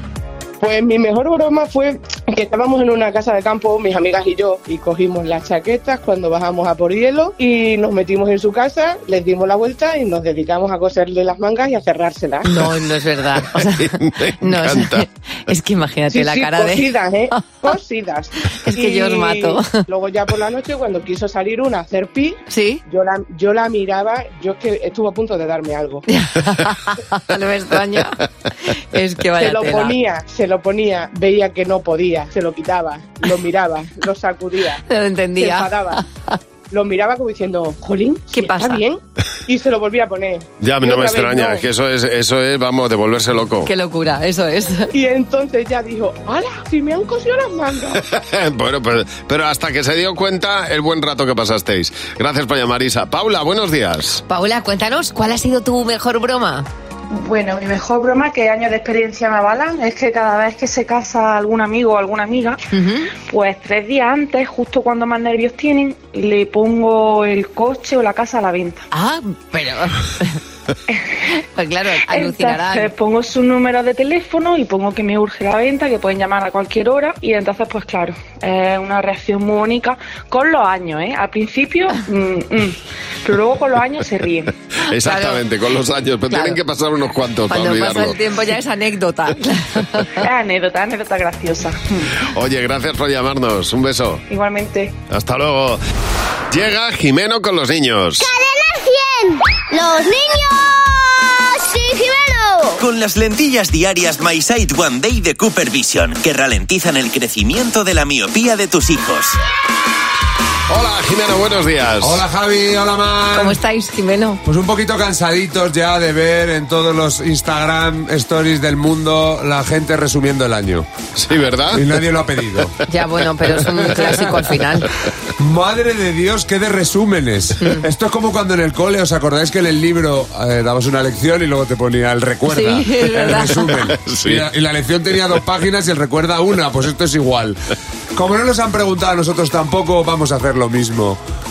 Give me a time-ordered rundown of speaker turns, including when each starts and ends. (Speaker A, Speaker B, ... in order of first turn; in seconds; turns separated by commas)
Speaker A: 0.6-12.5, Speaker B: 12.4-17.4, Speaker C: 13.6-15.1, Speaker A: 16.1-26.0, Speaker B: 18.6-19.7, Speaker B: 22.5-22.8, Speaker B: 26.1-30.0, Speaker A: 29.4-34.8, Speaker B: 34.9-36.0, Speaker A: 35.4-36.0, Speaker A: 36.7-41.6, Speaker B: 38.3-38.8, Speaker C: 40.6-43.7, Speaker B: 43.6-44.9, Speaker A: 44.9-48.0, Speaker C: 48.1-54.2, Speaker B: 54.3-56.7, Speaker D: 60.9-62.5, Speaker B: 62.7-63.1, Speaker D: 63.3-68.8, Speaker B: 68.9-70.4, Speaker B: 71.6-72.9, Speaker D: 72.2-82.8, Speaker D: 83.3-84.5, Speaker C: 84.9-88.2, Speaker B: 85.0-85.4, Speaker B: 86.3-86.6, Speaker B: 87.5-90.2, Speaker D: 90.3-91.8, Speaker C: 92.2-94.2, Speaker D: 94.3-94.9, Speaker C: 95.1-95.8, Speaker C: 96.5-98.3, Speaker E: 98.2-102.8, Speaker F: 102.8-109.4, Speaker C: 110.7-112.2, Speaker G: 112.0-113.6, Speaker B: 113.3-114.4, Speaker G: 114.5-120.9, Speaker C: 121.2-121.8, Speaker G: 121.7-122.7, Speaker B: 122.9-124.9, Speaker G: 125.4-137.6, Speaker B: 132.5-133.8, Speaker C: 133.9-134.5, Speaker G: 138.2-141.2